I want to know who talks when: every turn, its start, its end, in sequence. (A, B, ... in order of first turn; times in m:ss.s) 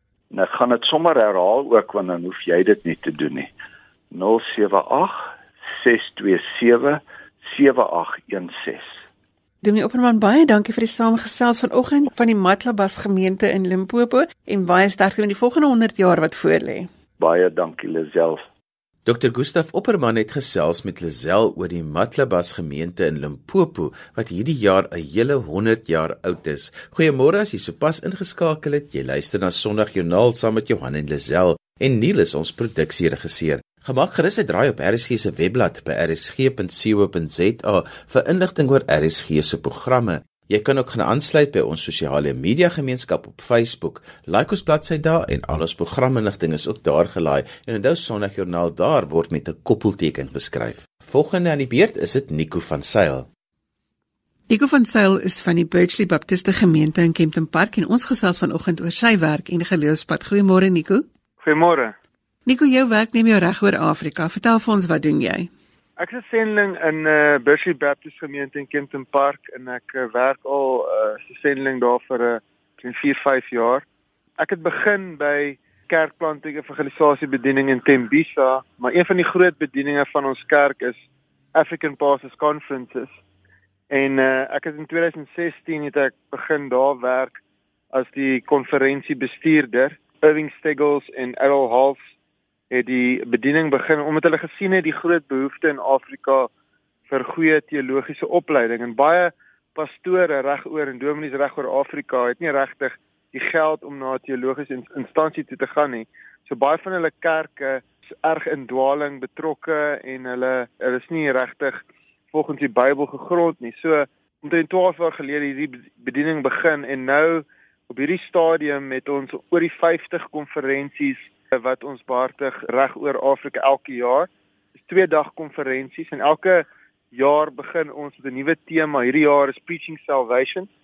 0:00.3-0:03.5 A
0:04.1-0:09.0 A
0:09.6-0:16.9 B
0:17.2-0:18.4 A
0:19.0-0:53.3 C
0:54.5-1:01.1 B
1:01.4-1:01.9 D
1:02.5-1:05.5 B
1:06.0-1:13.8 D
1:14.4-1:21.0 D
1:21.5-1:23.1 D
1:23.9-1:27.4 D
1:27.9-1:32.0 D
1:32.7-1:36.5 D
1:37.1-2:04.3 D
2:04.8-2:10.7 D